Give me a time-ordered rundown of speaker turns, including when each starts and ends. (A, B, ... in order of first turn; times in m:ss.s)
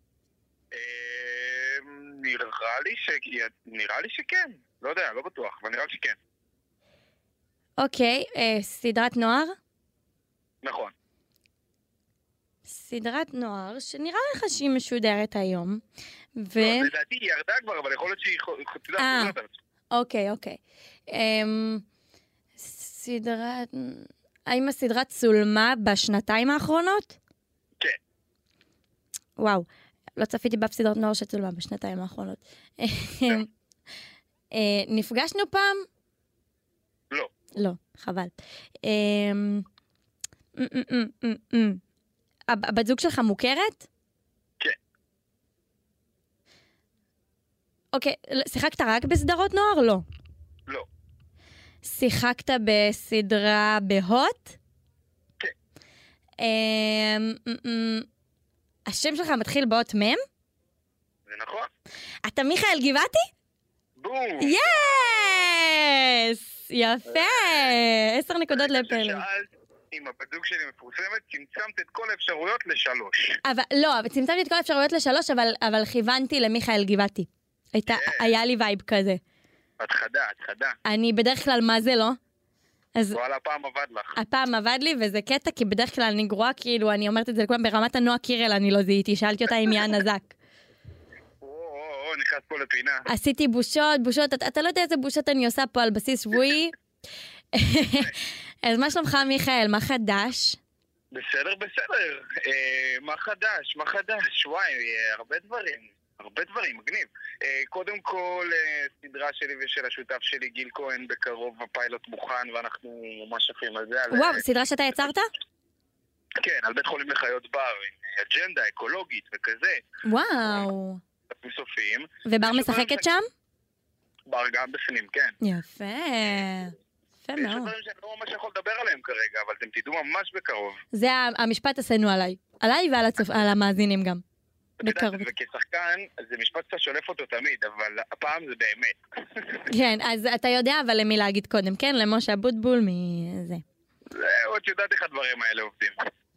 0:00.7-0:06.2 A
0:07.8-0:09.6 B
0:10.6-0:10.9 A
0:12.6-0:15.8 B
0:16.4-0:16.9 B
0:16.6-0:19.5 A
0:19.0-0:19.3 B
0:19.9-0:21.8 B
0:22.6-0:27.2 B
0:29.4-0:33.5 B
0:34.5-0:35.8 B
0:37.5-0:39.6 B
0:40.5-0:41.8 B
0:42.5-0:43.9 B
0:47.9-0:50.0 B
0:51.8-0:54.6 B
0:56.4-0:58.1 B
0:58.8-1:00.2 B
1:01.3-1:01.7 A
1:02.2-1:03.3 B
1:04.0-1:04.6 A
1:04.4-1:09.2 B
1:07.1-1:07.7 A
1:08.5-1:13.4 A
1:13.4-1:19.2 B
1:17.9-1:18.3 A
1:19.8-1:20.8 A
1:20.8-1:22.2 B
1:23.1-1:24.2 A
1:24.2-1:30.3 B
1:31.4-1:33.0 A
1:33.1-1:36.7 B
1:37.5-1:40.6 B
1:41.1-1:54.4 A
1:54.1-1:55.3 B
1:56.4-1:59.8 A
2:00.0-2:01.0 B
2:01.4-2:03.0 A
2:02.2-2:03.3 B
2:04.3-2:05.3 A
2:05.4-2:07.7 B
2:07.4-2:10.8 A
2:10.9-2:14.2 B
2:14.8-2:19.7 A
2:14.8-2:15.3 B
2:19.7-2:23.6 B
2:24.1-2:26.0 A